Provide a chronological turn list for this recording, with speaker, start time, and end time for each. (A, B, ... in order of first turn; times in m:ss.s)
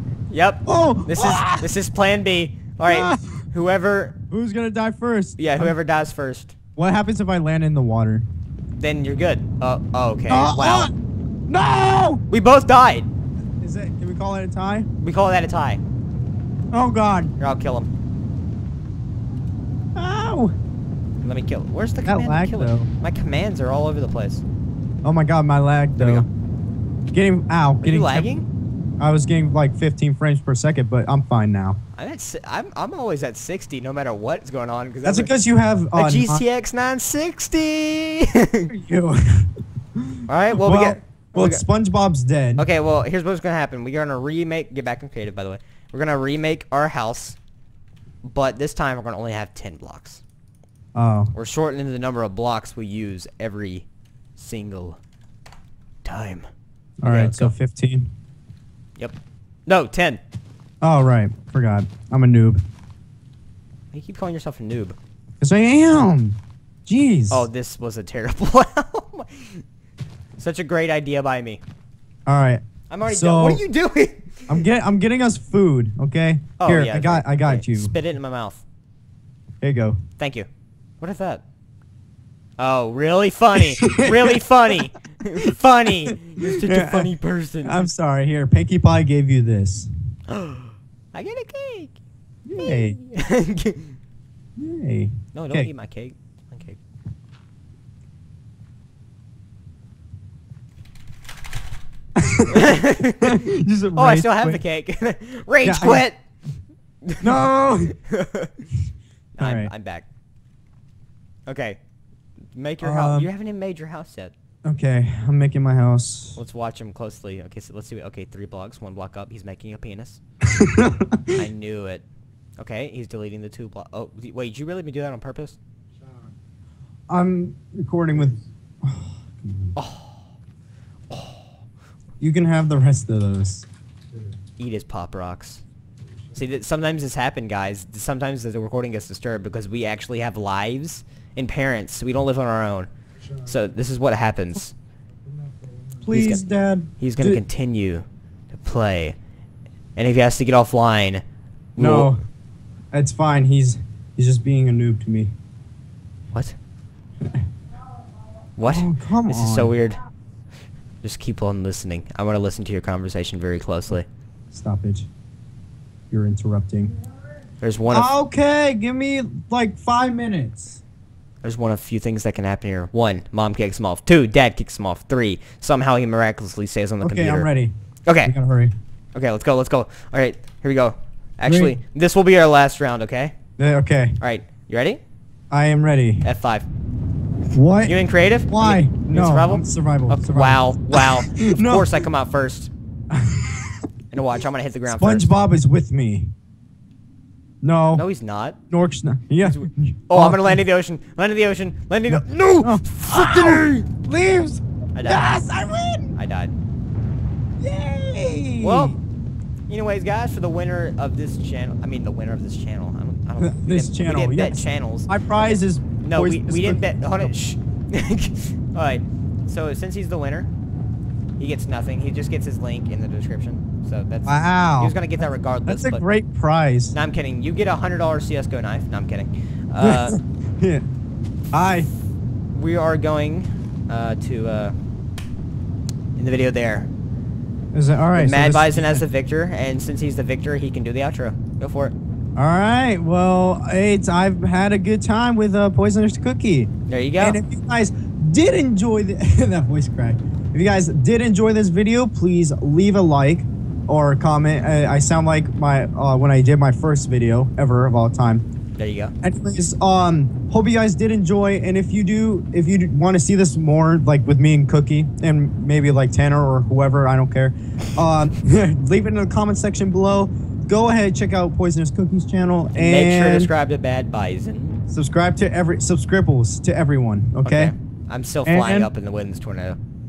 0:00.3-0:04.2 A
0:00.7-0:01.7 B
0:02.8-0:03.4 B
0:04.3-0:05.8 B
0:05.4-0:06.5 A
0:06.8-0:08.3 B
0:08.8-0:10.9 A
0:10.3-0:10.9 B
0:11.5-0:12.2 B
0:12.3-0:13.1 A
0:13.6-0:14.9 B
0:15.0-0:15.8 A
0:16.7-0:17.3 B
0:17.4-0:17.9 A
0:20.0-0:20.6 B
0:21.2-0:24.4 A
0:22.0-0:22.9 B
0:25.0-0:26.3 B
0:26.0-0:26.3 A
0:27.1-0:28.3 B
0:27.8-0:28.5 A
0:29.0-0:31.8 B
0:32.0-0:35.3 A
0:35.0-0:36.4 B
0:36.0-0:38.7 A
0:38.7-0:42.7 B
0:40.3-0:41.6 A
0:42.6-0:47.4 A
0:48.3-0:50.2 A
0:51.0-0:51.3 B
0:51.3-0:53.9 A
0:54.4-0:55.0 A
0:56.0-0:56.5 A
0:57.0-0:58.1 B
0:57.1-0:57.5 A
0:59.0-1:00.2 A
1:00.8-1:02.6 B
1:03.9-1:05.0 A
1:05.4-1:07.5 B
1:07.3-1:09.6 A
1:10.4-1:11.6 A
1:12.3-1:13.6 B
1:12.9-1:14.6 A
1:14.5-1:18.0 B
1:16.6-1:18.6 A
1:19.6-1:20.0 B
1:20.2-1:20.5 A
1:21.0-1:21.4 A
1:22.6-1:27.9 A
1:23.6-1:24.4 B
1:26.1-1:27.1 B
1:27.6-1:29.9 B
1:30.3-1:32.0 A
1:32.4-1:33.0 B
1:32.6-1:34.0 A
1:34.6-1:35.7 B
1:35.3-1:36.8 A
1:42.2-1:44.6 B
1:42.5-1:46.2 A
1:45.6-1:46.0 B
1:47.0-1:48.7 A
1:47.2-1:48.0 B
1:49.4-1:50.1 A
1:49.4-1:49.7 B
1:51.5-1:51.8 A
1:52.6-1:54.3 A
1:52.8-1:53.3 B
1:54.6-1:56.4 B
1:56.4-2:00.2 A
2:00.5-2:01.4 B
2:01.3-2:02.0 A
2:02.6-2:05.6 A
2:07.1-2:09.8 B
2:09.8-2:10.2 A
2:11.1-2:11.5 A
2:12.2-2:13.7 B
2:14.6-2:15.6 A
2:16.3-2:22.9 A
2:23.4-2:24.7 A
2:26.0-2:27.4 B
2:26.1-2:26.4 A
2:27.0-2:29.2 A
2:30.0-2:31.2 A
2:31.8-2:32.1 A
2:31.8-2:32.2 B
2:32.9-2:35.3 B
2:38.6-2:40.0 A
2:38.6-2:39.7 B
2:41.0-2:44.1 A
2:44.5-2:45.1 B
2:46.1-2:46.9 B
2:47.6-2:48.1 A
2:47.9-2:50.8 B
2:51.4-2:57.5 A
2:57.0-2:58.7 B
2:58.1-2:58.3 A
2:59.1-3:03.3 A
3:01.5-3:01.8 B
3:03.6-3:04.2 B
3:04.2-3:05.0 A
3:05.5-3:06.3 B
3:06.2-3:06.7 A
3:07.5-3:12.0 B
3:07.9-3:12.7 A
3:13.1-3:13.8 B
3:14.1-3:15.3 A
3:14.9-3:16.3 B
3:17.6-3:18.0 B
3:17.9-3:18.6 A
3:18.7-3:20.6 B
3:19.4-3:23.9 A
3:22.1-3:26.2 B
3:25.0-3:25.4 A
3:26.2-3:26.6 A
3:27.6-3:29.0 B
3:28.6-3:29.0 A
3:29.7-3:40.5 A
3:33.4-3:37.3 B
3:41.4-3:46.0 A
3:44.3-3:45.0 B
3:45.7-3:47.0 B
3:46.9-3:50.2 A
3:49.8-3:50.9 B
3:51.5-3:51.9 B
3:52.5-3:54.7 A
3:56.2-3:56.9 A
3:57.7-3:59.0 B
3:58.2-4:01.9 A
4:02.4-4:18.4 B
4:06.9-4:07.4 A
4:18.8-4:19.1 A
4:19.2-4:33.5 B
4:32.7-4:34.8 A
4:34.9-4:37.7 B
4:37.4-4:39.8 A
4:38.5-4:38.9 B